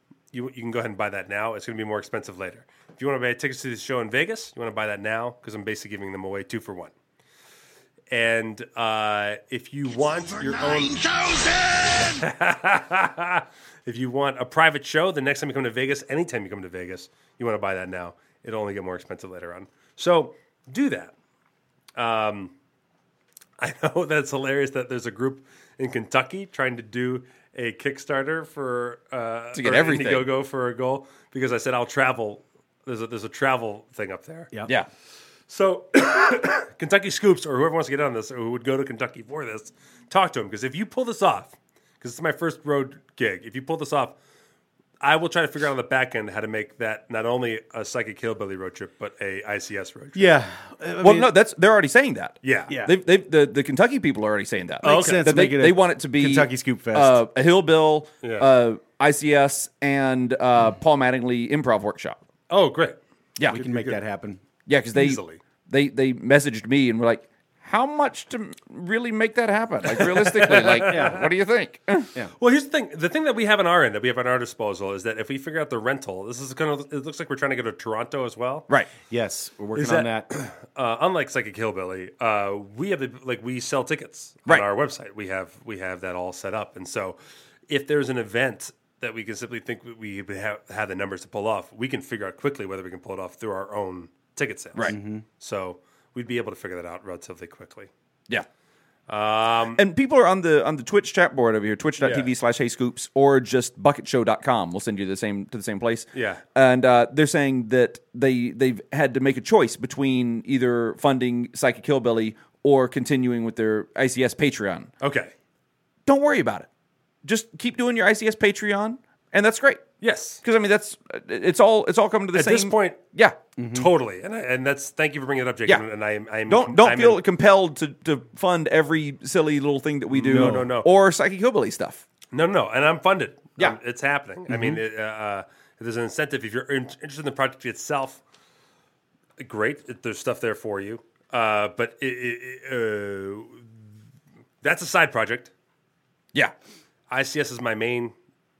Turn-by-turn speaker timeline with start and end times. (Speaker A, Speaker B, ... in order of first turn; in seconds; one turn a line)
Speaker A: 0.3-6.9
Speaker A: 8.1-21.1
Speaker A: 21.9-22.5
Speaker A: 23.6-34.5
Speaker B: 29.5-30.3
Speaker A: 35.5-44.2
Speaker A: 45.0-50.3
Speaker C: 50.1-51.3
Speaker B: 51.0-62.2
Speaker A: 52.4-52.7
Speaker C: 54.8-57.2
Speaker A: 54.8-55.2
Speaker A: 58.2-58.5
Speaker A: 62.5-64.0
Speaker C: 63.5-64.4
Speaker B: 64.7-72.1
Speaker A: 64.9-65.4
Speaker A: 69.8-71.2
Speaker C: 70.8-71.2
Speaker A: 72.4-78.7
Speaker C: 79.1-80.3
Speaker A: 79.8-87.2
Speaker A: 87.7-97.9
Speaker C: 94.9-95.2
Speaker A: 99.1-99.8
Speaker B: 99.8-114.9
Speaker A: 102.0-102.3
Speaker A: 106.1-106.4
Speaker A: 115.0-115.3
Speaker B: 116.0-116.7
Speaker B: 117.2-119.8
Speaker A: 120.0-120.4
Speaker B: 120.4-123.4
Speaker A: 122.3-123.0
Speaker C: 123.6-123.9
Speaker A: 123.7-127.2
Speaker B: 126.5-132.0
Speaker A: 130.1-130.9
Speaker C: 130.3-130.7
Speaker A: 132.3-138.2
Speaker A: 139.4-143.6
Speaker A: 144.6-145.5
Speaker A: 147.1-148.1